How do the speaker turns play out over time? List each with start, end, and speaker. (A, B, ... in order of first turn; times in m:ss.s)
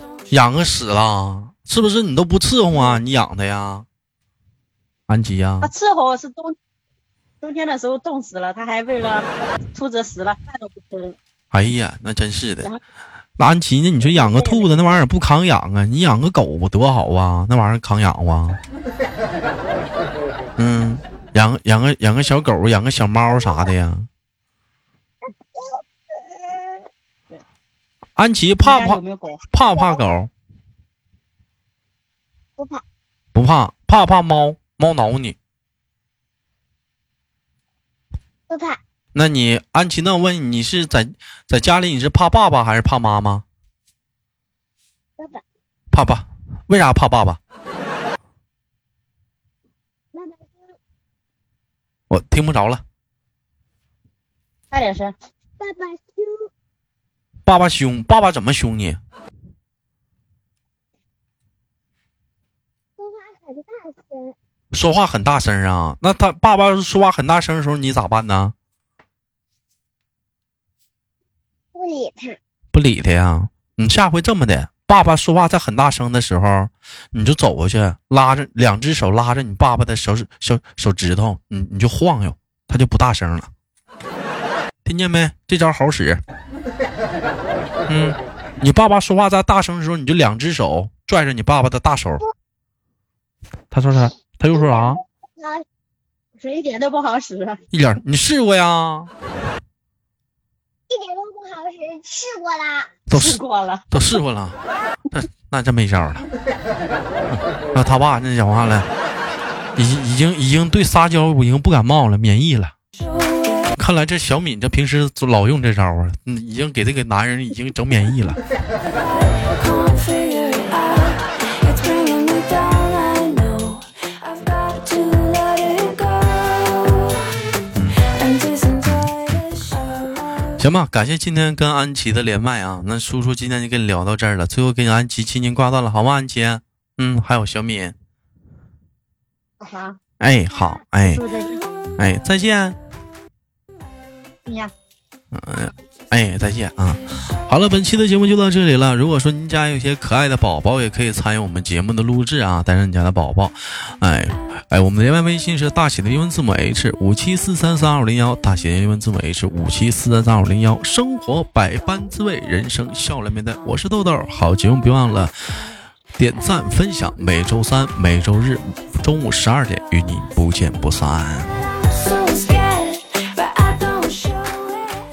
0:00.3-0:03.8 A
0:02.7-0:03.0 B
0:05.1-0:05.7 A
0:05.6-0:06.6 B
0:07.4-0:11.2 B
0:11.5-0:12.7 A
0:13.4-0:18.6 A
0:14.0-0:15.0 B
0:20.6-0:24.1 A
0:23.3-0:23.7 C
0:25.5-0:26.8 C
0:28.2-0:29.0 A
0:28.6-0:29.4 B
0:29.5-0:30.3 A
0:29.7-0:30.1 C
0:32.6-0:32.8 C
0:33.3-0:35.4 A
0:38.5-0:38.8 C
0:39.1-0:43.4 A
0:45.2-0:45.4 C
0:45.9-0:47.4 A
0:50.1-0:50.6 C
0:52.1-0:52.8 A
0:54.7-0:55.1 B
0:55.6-0:56.5 C
0:57.4-0:59.0 A
1:03.0-1:04.3 C
1:04.7-1:08.5 A
1:11.7-1:12.4 C
1:12.7-1:23.5 A
1:24.8-1:26.2 A
1:27.9-1:32.2 A
1:33.7-1:35.0 A
1:34.5-1:35.6 C
1:36.4-1:37.6 B
1:37.7-1:39.1 A
1:40.9-1:42.9 C
1:43.1-1:43.4 A
1:43.1-1:43.9 B
1:43.9-1:44.6 A
1:45.1-1:46.3 A
1:47.3-1:48.9 A
1:49.8-1:52.7 A
1:53.7-1:58.4 A
1:59.7-2:00.9 D
2:01.7-2:03.8 D
2:04.4-2:06.4 D
2:07.7-2:08.0 A
2:08.8-2:09.4 A
2:10.6-2:17.9 A
2:19.6-2:20.0 B
2:20.2-2:21.2 A
2:21.0-2:21.6 B
2:22.0-2:22.8 A
2:24.4-2:24.7 B
2:25.3-2:45.3 A
2:46.2-2:51.6 A
2:52.4-2:54.8 D